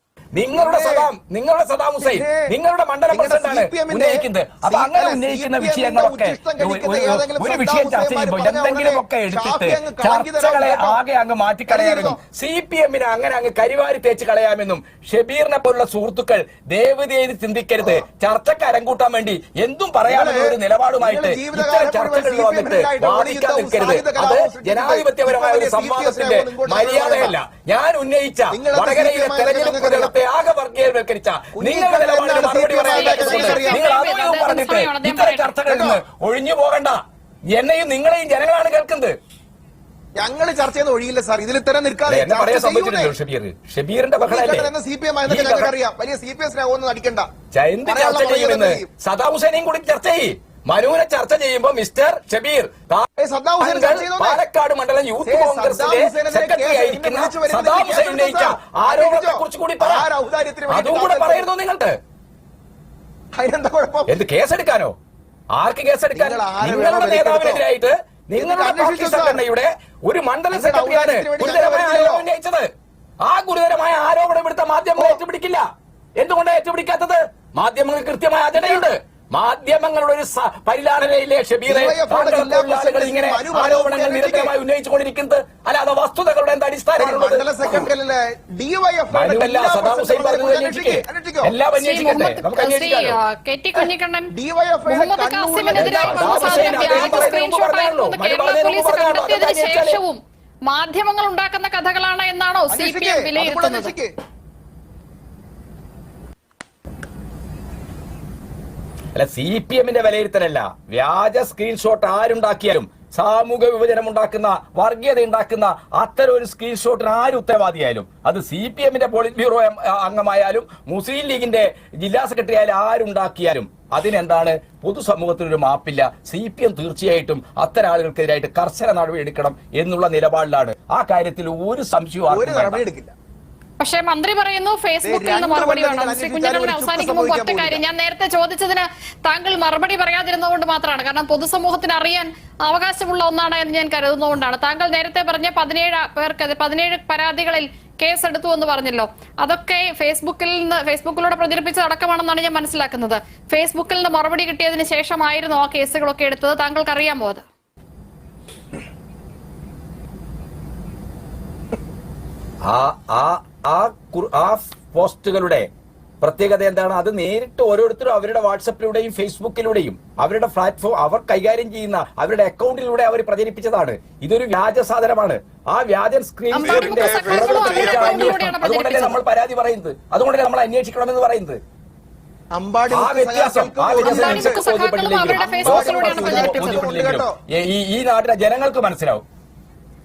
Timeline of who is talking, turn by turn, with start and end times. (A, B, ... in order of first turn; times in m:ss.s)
0:00.3-0:37.0 A
0:00.5-0:01.1 B
0:02.0-0:02.5 B
0:03.1-0:11.0 B
0:11.7-0:12.2 B
0:20.1-0:27.3 B
0:28.5-0:30.2 B
0:31.5-0:33.8 B
0:32.9-0:35.6 C
0:35.7-0:36.0 B
0:37.5-0:39.1 A
0:40.2-0:43.1 B
0:42.1-0:44.7 A
0:44.2-0:47.3 B
0:45.3-0:45.7 A
0:47.5-0:53.0 A
0:47.8-0:48.9 B
0:53.2-0:54.4 B
0:53.6-1:00.1 A
0:55.2-1:01.5 B
1:00.7-1:02.0 A
1:03.3-1:04.2 B
1:04.1-1:04.9 A
1:05.5-1:12.7 A
1:06.1-1:07.6 B
1:08.4-1:09.4 B
1:10.5-1:12.3 B
1:13.2-1:15.6 A
1:15.0-1:15.2 B
1:16.2-1:27.9 A
1:18.5-1:18.8 B
1:21.7-1:24.5 B
1:27.0-1:31.5 B
1:29.1-1:33.2 A
1:31.8-1:34.3 C
1:33.7-1:37.4 B
1:34.9-1:43.9 C
1:35.7-1:40.0 A
1:42.7-1:44.1 B
1:49.2-2:12.8 A
2:12.3-2:13.1 B
2:13.8-2:37.4 C
2:15.0-2:17.8 B
2:42.6-2:45.7 A
2:46.2-3:01.6 A
2:56.5-2:59.2 C
3:02.5-3:04.6 B
3:02.9-3:09.2 A
3:04.0-3:06.9 C
3:05.3-3:07.3 B